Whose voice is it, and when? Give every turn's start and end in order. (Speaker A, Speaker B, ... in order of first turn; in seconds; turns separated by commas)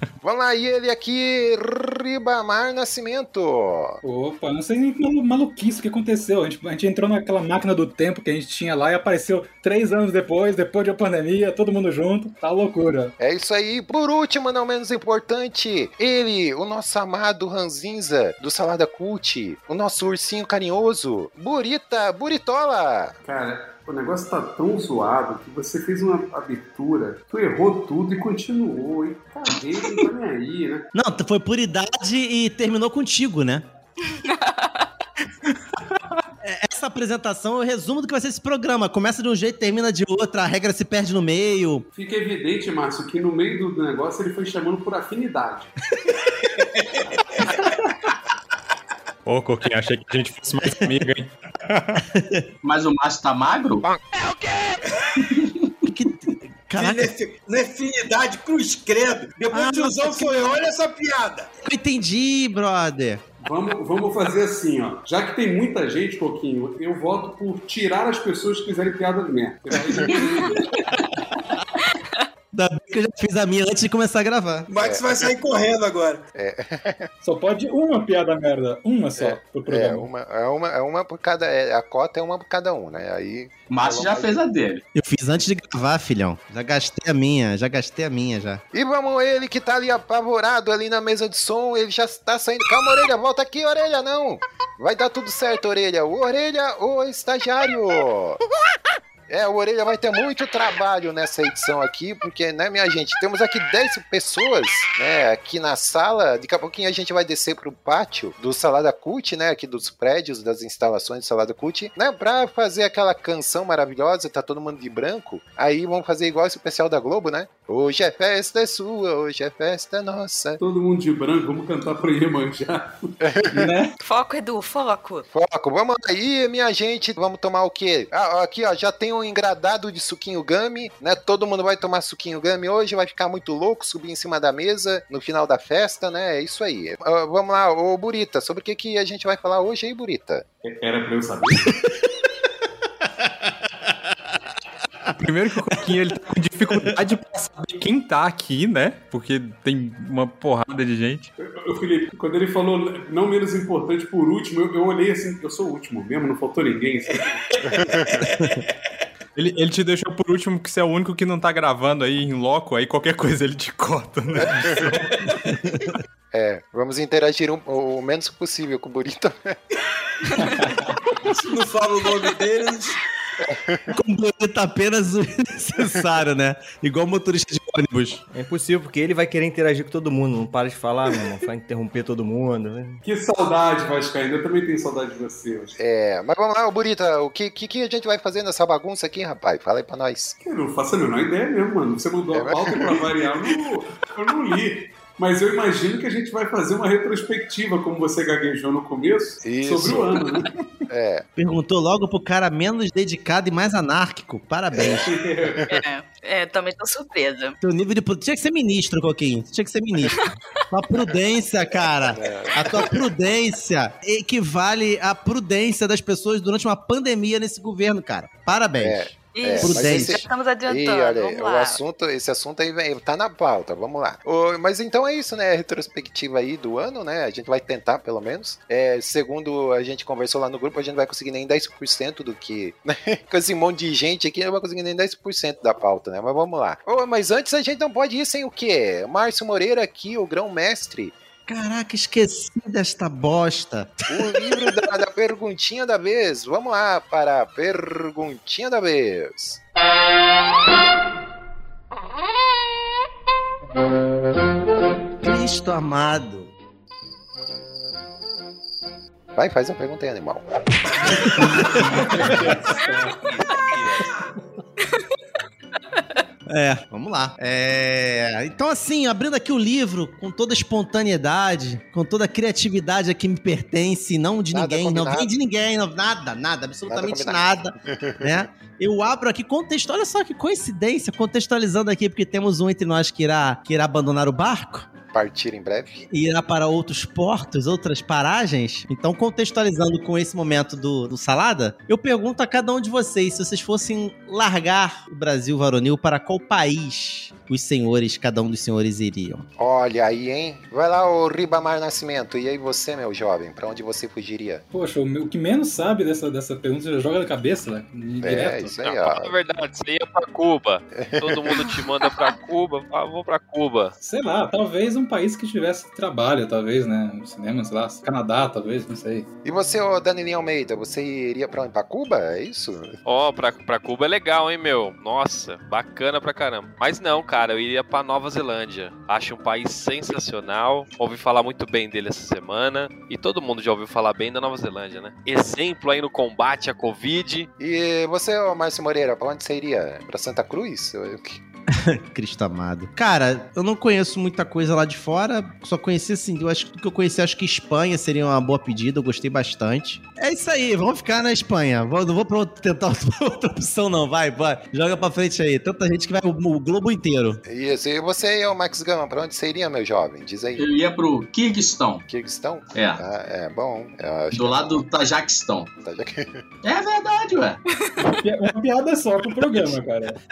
Speaker A: 0.2-4.0, Speaker B: 4.0-13.1, Speaker A: 13.2-23.2, Speaker C: 23.2-30.9, Speaker D: 30.9-33.7, Speaker E: 34.1-34.9, Speaker D: 36.4-41.9, Speaker C: 42.0-45.7, Speaker F: 49.2-52.0, Speaker D: 52.0-52.5, Speaker G: 52.6-53.9, Speaker D: 55.9-57.1, Speaker H: 56.8-61.5, Speaker D: 59.5-60.6, Speaker D: 61.6-63.2, Speaker C: 63.4-70.6, Speaker E: 70.1-70.7, Speaker D: 72.5-74.7, Speaker H: 74.7-76.2, Speaker A: 74.8-75.3, Speaker A: 76.3-77.1, Speaker B: 77.2-80.1, Speaker A: 79.2-84.4, Speaker G: 83.7-84.8, Speaker D: 85.0-88.6, Speaker A: 88.7-98.4, Speaker A: 99.3-120.6, Speaker C: 120.6-123.2, Speaker A: 123.2-123.7, Speaker B: 123.5-124.0, Speaker E: 124.0-125.3, Speaker A: 125.3-140.4, Speaker C: 140.6-141.7, Speaker F: 145.2-151.3, Speaker C: 151.4-157.4, Speaker A: 157.7-158.3, Speaker D: 158.2-158.6, Speaker F: 159.4-165.2, Speaker A: 164.6-165.0, Speaker D: 165.4-165.9, Speaker A: 166.3-169.6, Speaker H: 171.1-173.0, Speaker A: 173.4-173.9, Speaker D: 173.9-178.2, Speaker I: 178.3-183.0, Speaker C: 183.1-185.8, Speaker A: 185.8-190.4, Speaker C: 190.4-200.5, Speaker A: 192.3-193.2, Speaker A: 199.4-200.3, Speaker A: 200.9-201.3, Speaker D: 201.4-205.1, Speaker A: 204.7-205.8, Speaker C: 204.9-205.6, Speaker E: 205.6-207.6, Speaker D: 207.6-220.2, Speaker A: 212.1-212.9, Speaker A: 218.8-241.2, Speaker E: 219.3-221.8, Speaker D: 241.5-244.7, Speaker A: 244.1-249.6, Speaker D: 255.2-256.5, Speaker A: 259.4-260.4, Speaker D: 261.4-261.8, Speaker B: 261.4-263.2, Speaker J: 263.4-264.0, Speaker D: 266.5-284.9, Speaker A: 274.5-275.3, Speaker A: 276.9-278.4, Speaker A: 285.1-286.0, Speaker D: 286.1-299.5, Speaker A: 299.6-304.6, Speaker B: 304.7-308.8, Speaker A: 308.2-309.4, Speaker J: 308.8-313.9, Speaker A: 310.9-311.6, Speaker B: 314.0-319.3, Speaker A: 319.4-322.9, Speaker J: 323.1-337.5, Speaker A: 337.6-341.4, Speaker D: 341.7-357.4, Speaker A: 357.5-360.7, Speaker G: 360.6-362.1, Speaker A: 362.1-364.9, Speaker G: 362.7-363.0, Speaker G: 364.3-365.7, Speaker A: 365.8-366.4, Speaker G: 366.6-367.6, Speaker B: 368.2-370.2